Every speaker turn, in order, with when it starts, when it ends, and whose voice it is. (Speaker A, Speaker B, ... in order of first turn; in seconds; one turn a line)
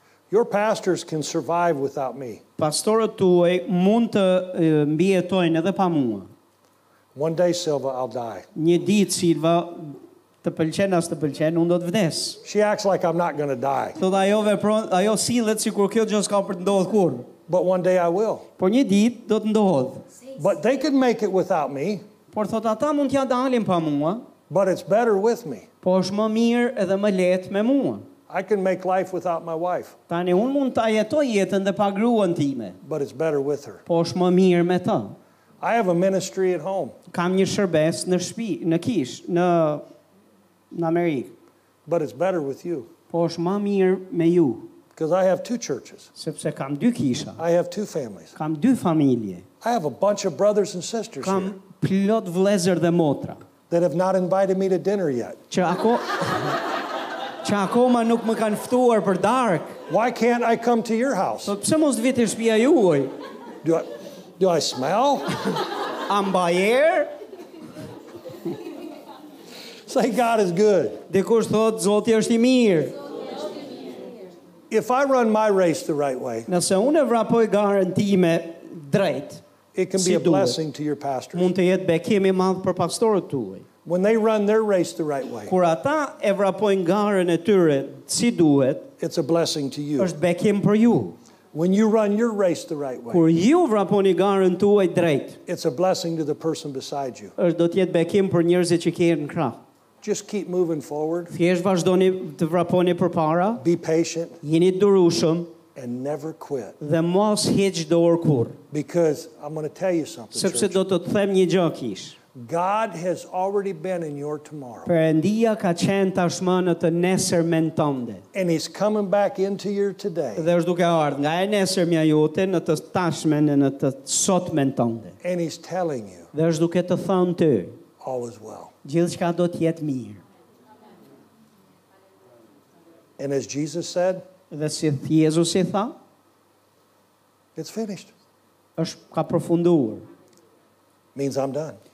Speaker A: 0.3-2.4
Speaker B: 2.6-6.3
Speaker A: 7.2-8.5
Speaker B: 8.6-12.4
Speaker A: 12.4-14.0
Speaker B: 14.0-17.3
Speaker A: 17.5-18.5
Speaker B: 18.6-20.1
Speaker A: 20.4-22.0
Speaker B: 22.3-24.2
Speaker A: 24.5-25.7
Speaker B: 25.8-28.1
Speaker A: 28.3-29.9
Speaker B: 30.1-32.8
Speaker A: 32.8-33.8
Speaker B: 33.9-35.1
Speaker A: 35.6-37.0
Speaker B: 37.1-39.8
Speaker B: 40.7-41.3
Speaker A: 41.9-42.9
Speaker B: 43.1-44.7
Speaker A: 45.0-46.1
Speaker B: 46.2-47.4
Speaker A: 47.4-48.4
Speaker B: 48.4-49.4
Speaker A: 49.6-51.5
Speaker B: 51.2-53.4
Speaker A: 53.7-55.4
Speaker B: 55.5-56.6
Speaker B: 57.4-59.8
Speaker A: 59.9-61.5
Speaker B: 61.5-63.1
Speaker A: 63.6-65.3
Speaker B: 66.1-67.1
Speaker A: 69.9-71.0
Speaker B: 71.1-72.9
Speaker A: 74.7-76.5
Speaker B: 76.5-79.4
Speaker A: 79.8-81.5
Speaker B: 80.0-80.6
Speaker B: 81.3-83.7
Speaker A: 83.8-85.5
Speaker B: 85.5-88.9
Speaker A: 89.0-90.2
Speaker B: 90.0-91.2
Speaker A: 91.5-93.2
Speaker B: 93.1-95.4
Speaker A: 95.5-97.3
Speaker B: 97.4-99.6
Speaker A: 100.0-101.3
Speaker B: 101.3-103.6
Speaker A: 103.6-104.4
Speaker B: 104.4-105.5
Speaker A: 105.8-106.8
Speaker B: 106.8-108.6
Speaker A: 108.7-110.8
Speaker B: 110.3-112.2
Speaker A: 112.3-114.9
Speaker B: 114.9-118.2
Speaker A: 118.3-120.5
Speaker B: 120.4-125.2
Speaker A: 125.2-126.3
Speaker B: 126.3-127.8
Speaker A: 128.0-128.7
Speaker B: 128.8-130.2
Speaker A: 133.2-134.2
Speaker B: 134.5-135.9
Speaker A: 137.6-138.1
Speaker B: 138.8-140.1
Speaker A: 141.2-141.8